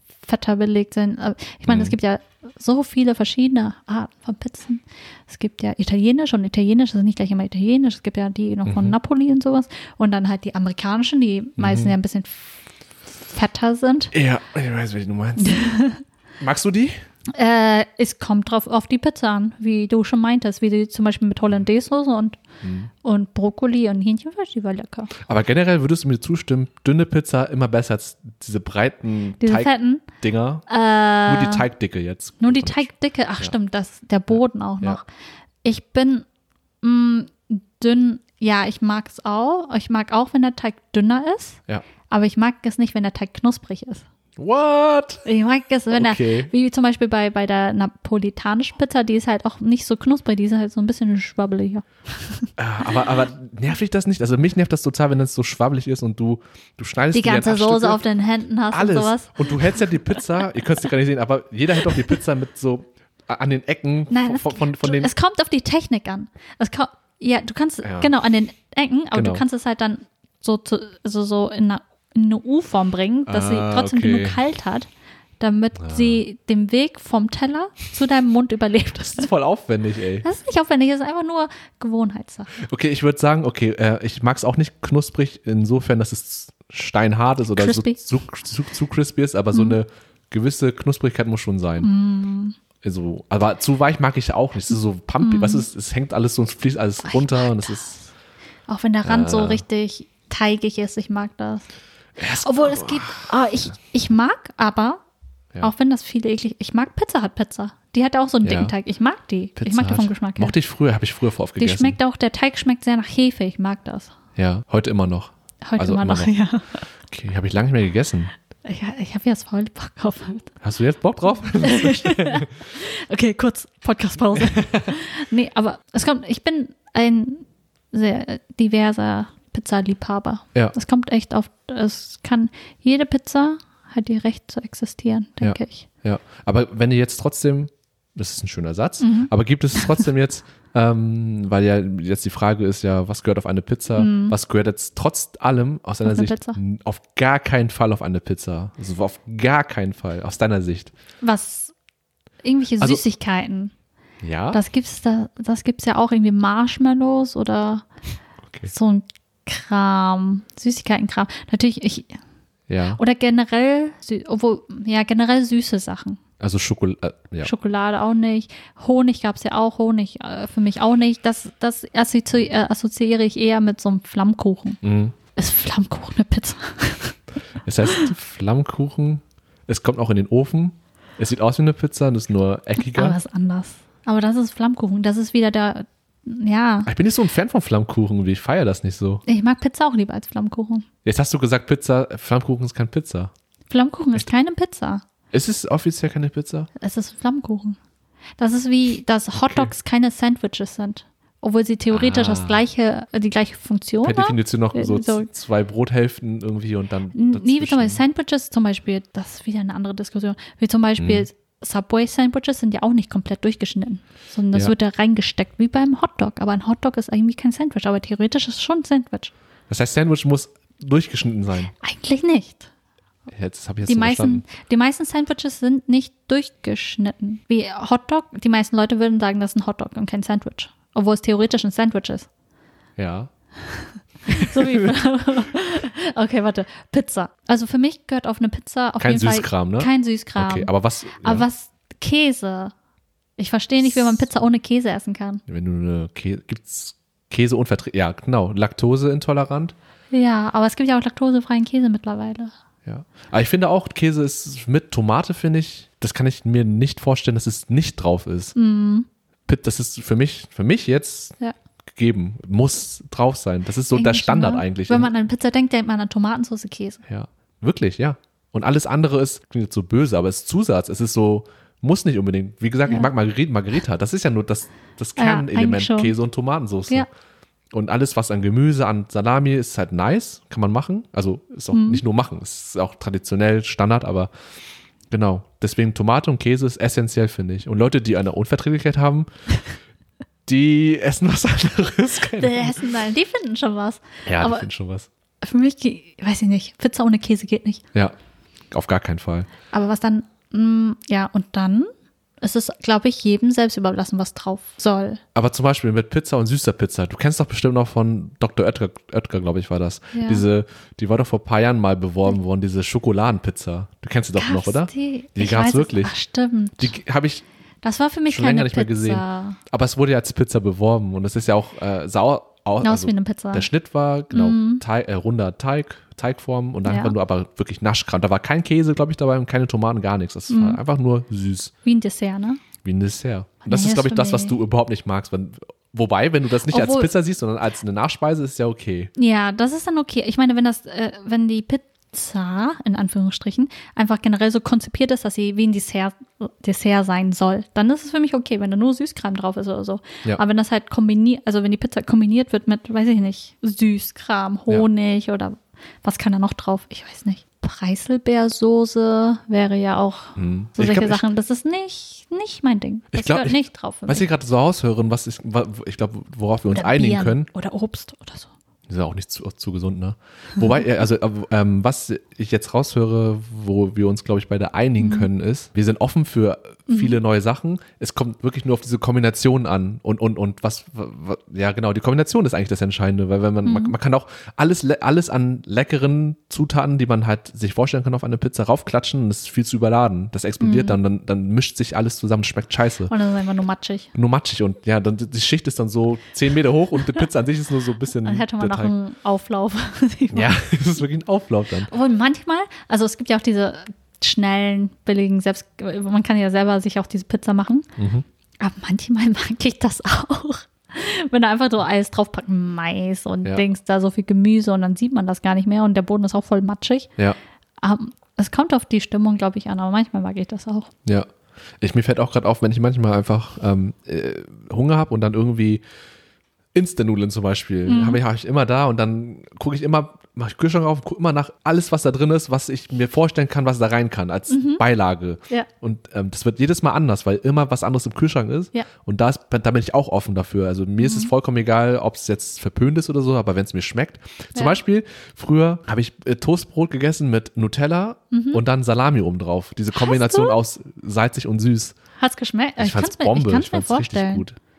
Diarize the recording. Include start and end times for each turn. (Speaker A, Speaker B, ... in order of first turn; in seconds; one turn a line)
Speaker A: 0.2-12.7
Speaker B: 1.7-1.9
Speaker B: 8.7-8.9
Speaker B: 11.6-11.9
Speaker A: 13.2-14.1
Speaker B: 14.1-15.8
Speaker A: 15.4-16.0
Speaker B: 16.4-17.0
Speaker A: 17.3-22.4
Speaker B: 22.6-22.9
Speaker A: 23.0-25.1
Speaker B: 25.2-30.6
Speaker A: 29.4-30.0
Speaker A: 30.7-31.7
Speaker B: 31.2-33.5
Speaker A: 32.4-35.0
Speaker B: 34.3-35.0
Speaker A: 35.6-36.2
Speaker A: 36.8-44.0
Speaker B: 44.4-45.2
Speaker A: 45.2-52.5
Speaker B: 45.9-46.5
Speaker B: 52.6-58.0
Speaker A: 57.1-60.2
Speaker B: 58.7-65.1
Speaker A: 61.8-62.2
Speaker A: 64.1-74.9
Speaker B: 67.8-68.1
Speaker B: 69.1-69.4
Speaker B: 73.3-74.4
Speaker A: 75.4-79.3
Speaker B: 75.8-76.2
Speaker B: 79.2-80.3
Speaker A: 80.2-82.5
Speaker B: 82.5-91.9
Speaker A: 87.6-88.0
Speaker A: 89.5-89.8
Speaker A: 91.8-92.5
Speaker B: 92.8-98.0
Speaker A: 95.2-95.7
Speaker A: 97.0-98.0
Speaker A: 98.7-101.7
Speaker B: 99.0-99.6
Speaker B: 102.2-103.5
Speaker A: 102.4-105.0
Speaker A: 105.6-110.5
Speaker B: 108.4-108.7
Speaker B: 109.6-112.0
Speaker A: 111.6-114.1
Speaker B: 114.3-116.3
Speaker A: 115.6-116.8
Speaker B: 117.1-118.3
Speaker A: 118.6-120.5
Speaker B: 120.6-122.5
Speaker A: 121.6-135.8
Speaker B: 124.3-124.9
Speaker B: 135.4-150.9
Speaker A: 139.0-139.3
Speaker A: 143.9-144.3
Speaker A: 146.0-146.6
Speaker A: 151.2-151.7
Speaker A: 152.4-153.7
Speaker B: 154.2-154.6
Speaker A: 154.5-157.8
Speaker A: 158.7-162.2
Speaker B: 162.7-163.0
Speaker A: 162.9-166.2
Speaker B: 166.4-167.5
Speaker A: 167.4-174.8
Speaker B: 174.8-175.1
Speaker A: 175.3-177.2
Speaker B: 177.6-183.2
Speaker A: 182.8-186.9
Speaker B: 186.8-189.2
Speaker A: 189.2-190.8
Speaker B: 191.0-193.3
Speaker A: 193.7-195.0
Speaker B: 195.3-196.7
Speaker A: 196.8-197.8
Speaker A: 198.4-205.3
Speaker B: 199.3-199.7
Speaker B: 201.9-202.6
Speaker B: 204.0-208.0
Speaker A: 207.1-219.3
Speaker B: 211.0-211.2
Speaker B: 219.7-221.7
Speaker A: 221.7-222.7
Speaker B: 223.3-224.4
Speaker A: 223.8-232.3
Speaker B: 233.0-233.3
Speaker A: 233.6-242.7
Speaker B: 234.3-234.9
Speaker B: 239.0-241.4
Speaker A: 243.4-245.4
Speaker B: 245.5-249.7
Speaker A: 250.1-252.5
Speaker B: 252.8-258.6
Speaker A: 258.5-259.1
Speaker B: 259.5-261.4
Speaker B: 261.9-265.1
Speaker A: 263.9-267.0
Speaker B: 267.1-277.1
Speaker A: 275.2-276.1
Speaker B: 277.7-284.3
Speaker A: 281.7-282.0
Speaker B: 285.1-289.3
Speaker B: 290.4-292.9
Speaker A: 292.4-294.7
Speaker B: 294.2-295.1
Speaker A: 295.4-297.8
Speaker B: 298.7-299.5
Speaker A: 299.7-301.9
Speaker A: 302.4-305.2
Speaker B: 305.3-316.1
Speaker A: 310.1-310.4
Speaker A: 314.4-316.9
Speaker B: 316.8-317.4
Speaker A: 317.8-319.6
Speaker B: 318.3-331.7
Speaker A: 322.8-323.7
Speaker A: 324.3-324.8
Speaker A: 326.8-327.1
Speaker A: 330.5-330.8
Speaker A: 331.8-332.6
Speaker B: 332.8-339.1
Speaker A: 333.6-334.5
Speaker A: 336.6-337.1
Speaker A: 339.1-364.2
Speaker B: 360.4-361.2
Speaker B: 363.1-367.5
Speaker A: 366.7-368.5
Speaker B: 368.9-393.1
Speaker A: 375.0-375.3
Speaker A: 376.9-377.2
Speaker A: 383.6-383.9
Speaker A: 390.6-391.0
Speaker A: 393.1-394.1
Speaker B: 394.1-398.9
Speaker A: 398.2-400.5
Speaker B: 400.3-401.9
Speaker A: 401.9-407.9
Speaker B: 408.0-408.2
Speaker A: 408.6-417.1
Speaker A: 417.8-420.9
Speaker B: 421.8-425.8
Speaker B: 426.7-451.9
Speaker A: 427.9-428.2
Speaker A: 434.5-434.8
Speaker A: 441.0-441.3
Speaker A: 448.3-448.6
Speaker A: 449.9-450.6
Speaker A: 452.2-454.4
Speaker B: 452.8-454.6